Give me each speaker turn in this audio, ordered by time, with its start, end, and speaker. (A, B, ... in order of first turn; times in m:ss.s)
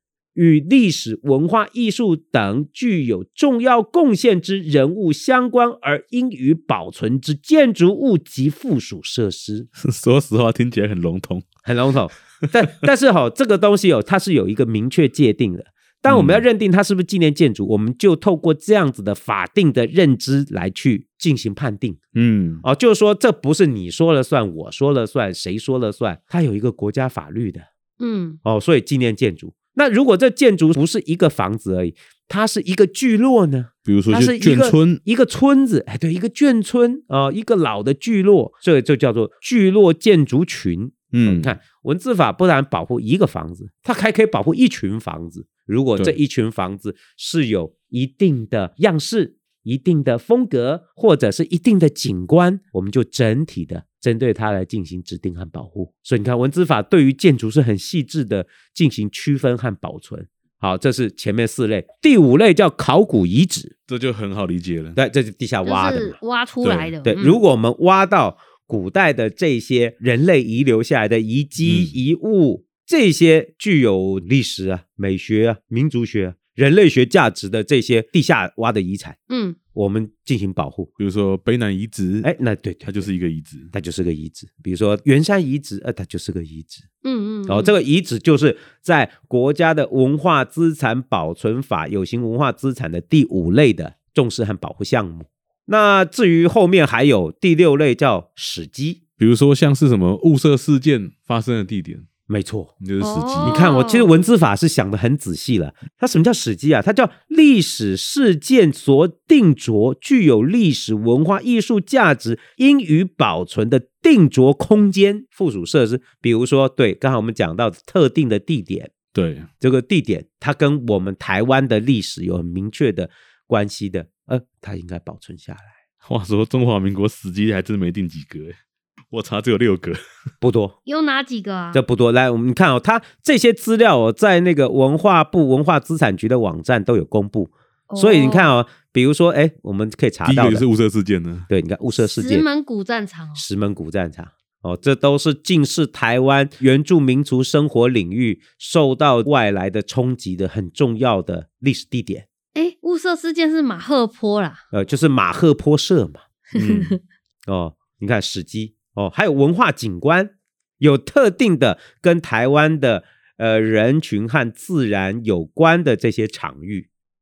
0:00.3-0:09.7 A
0:09.8-0:11.4 B
0:11.6-0:22.0 A
0:16.1-0:16.4 B
0:22.1-0:22.6 B
0:22.6-0:27.6 A
0:28.0-0:28.4 C
0:28.4-1:03.7 A
0:33.8-0:35.0 B
0:41.1-0:41.6 B
1:03.9-1:05.0 B
1:05.0-1:06.2 A
1:05.6-1:07.4 C
1:06.6-1:06.9 B
1:07.0-1:19.2 A
1:11.6-1:11.9 B
1:19.3-1:19.6 C
1:19.7-1:20.9 A
1:21.0-1:22.3 B
1:22.2-1:23.0 A
1:22.8-1:23.7 B
1:23.7-1:26.8 A
1:27.0-1:27.7 C
1:27.5-1:39.0 A
1:39.2-1:42.0 B
1:42.3-1:42.7 A
1:42.8-1:43.6 B
1:43.0-1:44.1 C
1:43.4-1:58.9 A
1:59.1-1:59.5 B
1:59.6-2:05.7 A
2:06.0-2:08.6 B
2:09.1-2:10.0 B
2:10.4-2:10.8 A
2:10.8-2:11.8 C
2:11.7-2:20.6 A
2:17.9-2:18.4 C
2:20.2-2:21.5 B
2:21.5-2:22.4 A
2:22.0-2:23.4 C
2:23.4-2:32.2 A
2:32.5-2:34.6 C
2:34.7-2:36.2 A
2:36.5-2:37.0 B
2:36.5-2:37.0 C
2:37.5-2:46.9 A